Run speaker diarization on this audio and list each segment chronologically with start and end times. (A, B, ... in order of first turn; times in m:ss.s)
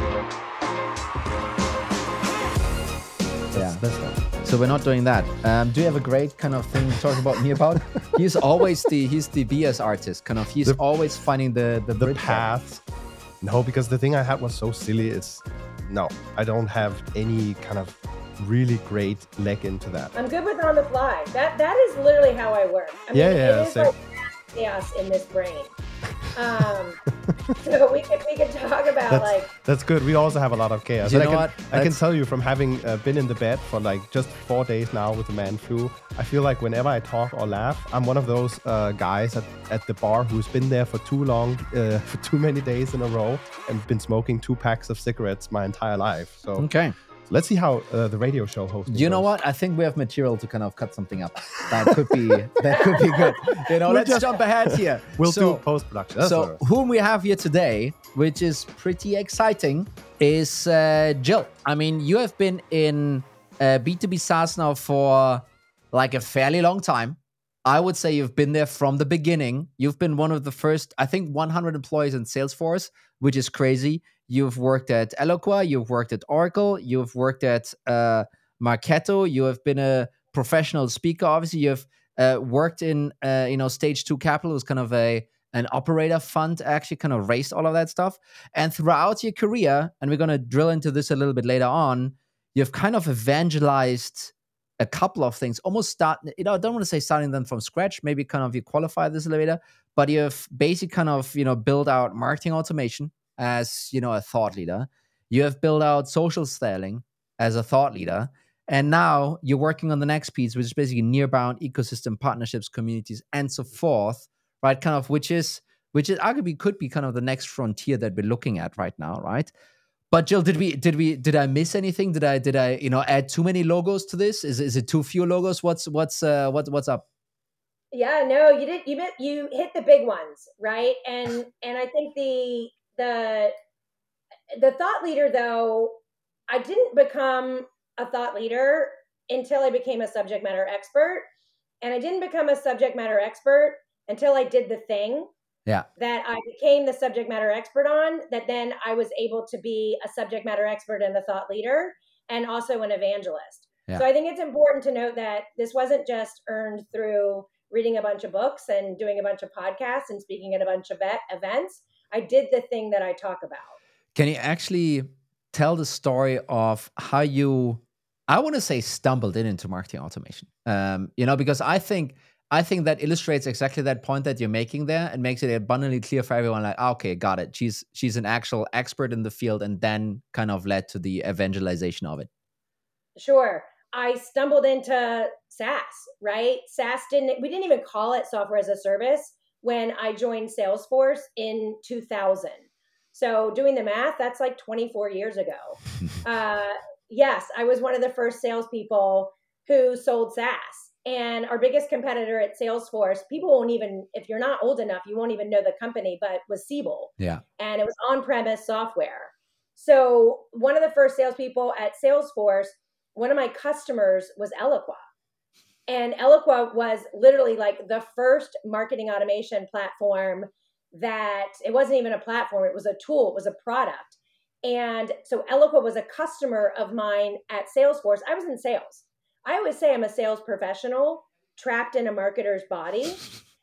0:03.5-0:04.2 A
0:03.5-0:12.5 B
0:12.0-0:12.8 A
0:13.4-0:20.1 A
0:20.2-0:25.7 C
0:23.1-0:23.9 A
0:26.3-0:27.0 C
0:27.3-0:27.6 A
0:27.6-0:29.5 C
0:29.1-0:46.7 A
0:31.0-0:32.0 B
0:46.6-0:47.0 B
0:47.3-0:49.3 A
0:48.9-0:55.6 B
0:51.7-0:56.6 A
0:56.2-1:59.5 B
2:00.1-2:07.0 B
2:07.9-2:13.5 C
2:14.5-2:16.0 C
2:16.5-2:21.2 C
2:21.8-2:25.3 C
2:26.0-2:43.8 C
2:44.2-3:02.3 B
3:03.2-3:35.0 C
3:35.9-3:53.2 C